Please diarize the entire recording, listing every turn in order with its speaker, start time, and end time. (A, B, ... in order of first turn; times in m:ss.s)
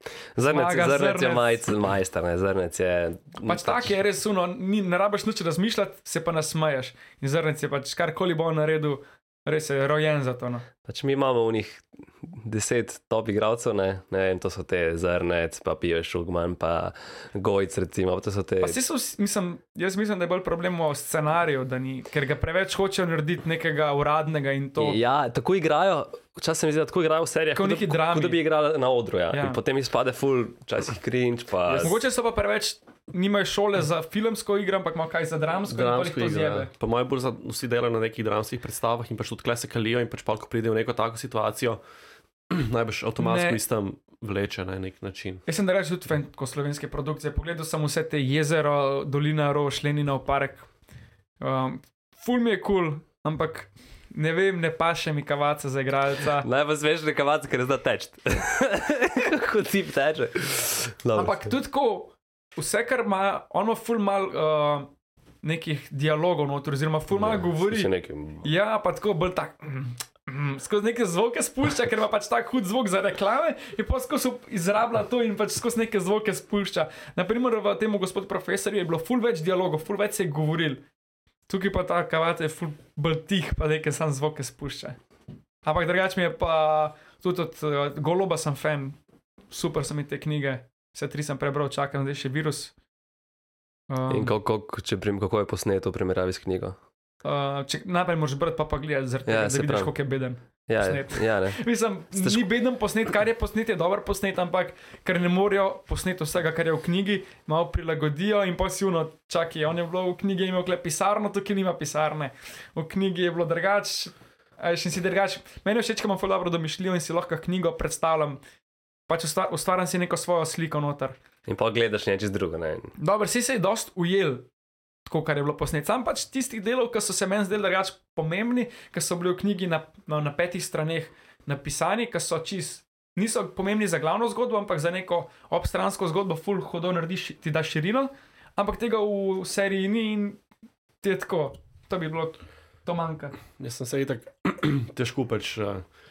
0:00.3-0:03.9 A
0:00.4-0:01.5 B
0:03.4-0:10.6 B
0:10.8-0:18.8 A
0:18.6-0:25.0 B
0:24.8-0:32.0 A
0:27.6-0:28.4 B
0:29.3-0:29.6 B
0:31.7-0:32.0 C
0:31.8-0:36.7 B
0:35.7-0:41.8 C
0:42.5-0:45.4 C
0:43.2-0:43.6 B
0:45.4-0:50.7 B
0:51.4-0:56.5 B
0:56.4-1:01.5 A
1:01.1-1:04.9 B
1:05.4-1:07.9 B
1:07.1-1:08.5 A
1:08.4-1:20.8 B
1:21.5-1:25.0 B
1:25.6-1:29.0 B
1:29.5-1:32.7 B
1:33.9-1:34.3 B
1:34.1-1:36.8 A
1:37.2-1:58.4 B
1:39.2-1:39.9 A
1:40.7-1:42.5 A
1:59.1-2:01.2 B
2:01.4-2:02.9 A
2:03.0-2:04.5 B
2:05.0-2:20.4 B
2:21.0-2:23.4 B
2:23.6-2:25.8 C